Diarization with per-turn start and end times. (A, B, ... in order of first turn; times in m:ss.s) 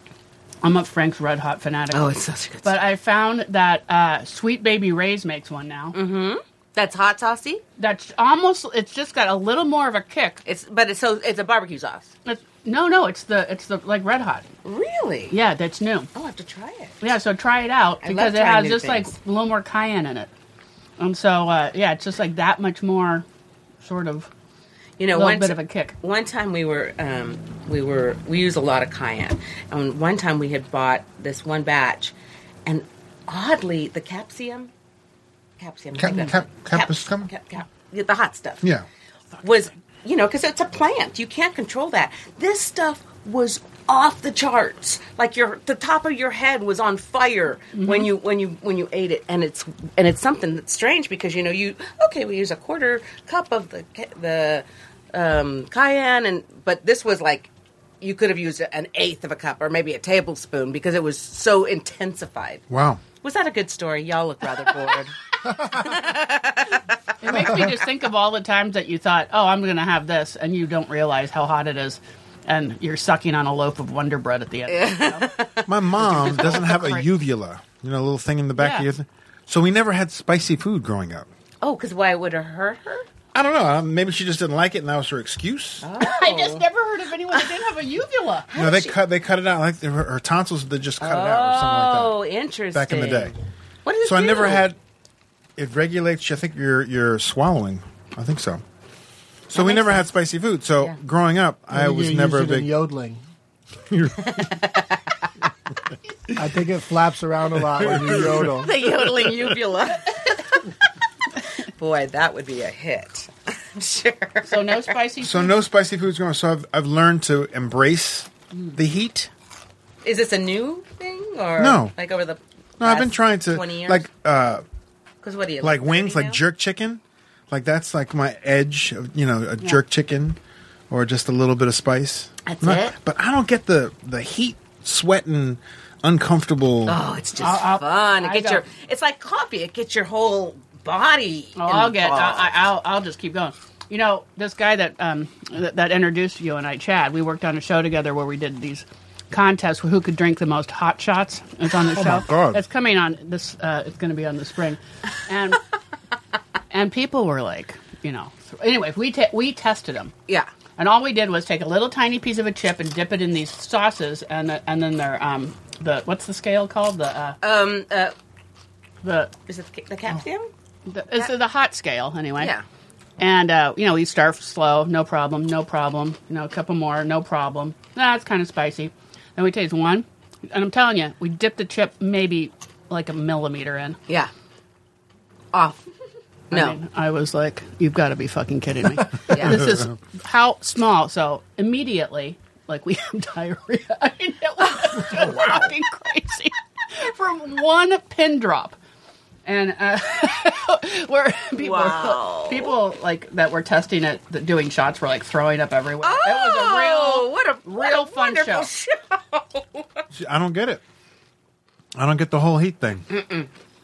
0:00.6-0:02.1 A
0:01.9-0:02.8 B
0:02.6-0:06.0 A
0:05.9-0:07.6 B
0:07.8-0:10.4 A
0:10.4-0:12.1 B
0:12.3-0:14.5 A
0:14.6-0:15.4 B
0:15.3-0:16.1 A
0:16.2-0:17.0 B
0:17.0-0:20.3 A
0:18.0-0:19.1 B
0:21.0-0:23.2 A
0:23.8-0:24.3 A
0:25.0-0:32.1 B
0:25.1-0:25.9 A
0:32.7-0:34.7 B
0:35.6-0:38.7 B
0:36.0-0:37.3 C
0:39.4-0:57.5 B
0:47.7-0:48.1 A
0:58.0-1:02.7 B
1:02.7-1:03.0 C
1:03.2-1:07.7 B
1:05.5-1:05.8 D
1:07.2-1:15.3 A
1:14.7-1:15.7 B
1:15.7-1:21.3 C
1:16.0-1:17.1 A
1:18.6-1:18.9 A
1:21.6-1:23.1 B
1:23.3-1:25.9 C
1:25.8-1:26.6 B
1:26.0-1:28.5 A
1:28.5-1:29.0 B
1:28.6-1:32.2 C
1:31.0-1:34.6 B
1:32.7-1:33.3 C
1:34.0-1:34.8 C
1:35.6-1:38.6 C
1:39.5-1:42.7 C
1:39.5-1:40.1 B
1:41.7-1:43.2 D
1:43.9-1:44.6 C
1:44.3-1:45.2 B
1:46.4-1:48.7 D
1:47.6-1:49.6 C
1:48.3-1:50.8 B
1:51.4-1:54.9 B
1:54.4-1:55.6 A
1:55.2-1:59.3 C
2:00.0-2:04.0 B
2:01.6-2:01.9 C
2:02.8-2:04.6 C
2:05.2-2:06.4 B
2:05.6-2:10.4 C
2:10.9-2:17.0 C
2:12.4-2:13.0 B
2:16.9-2:22.6 B
2:17.4-2:18.6 A
2:21.6-2:35.6 A
2:31.9-2:32.6 C
2:36.7-2:40.1 A
2:40.8-2:47.4 A
2:47.4-2:48.1 B
2:49.0-2:49.3 A
2:49.5-2:50.5 B
2:50.9-2:52.5 A
2:52.4-2:52.6 B
2:53.2-3:04.0 A
3:05.5-3:05.8 B
3:06.5-3:06.8 B
3:06.5-3:18.8 A
3:09.3-3:09.8 B
3:09.4-3:09.9 C
3:19.5-3:28.7 A
3:21.6-3:22.7 B
3:26.0-3:30.0 B
3:30.1-3:30.8 C
3:32.0-3:33.1 C
3:33.1-3:33.5 B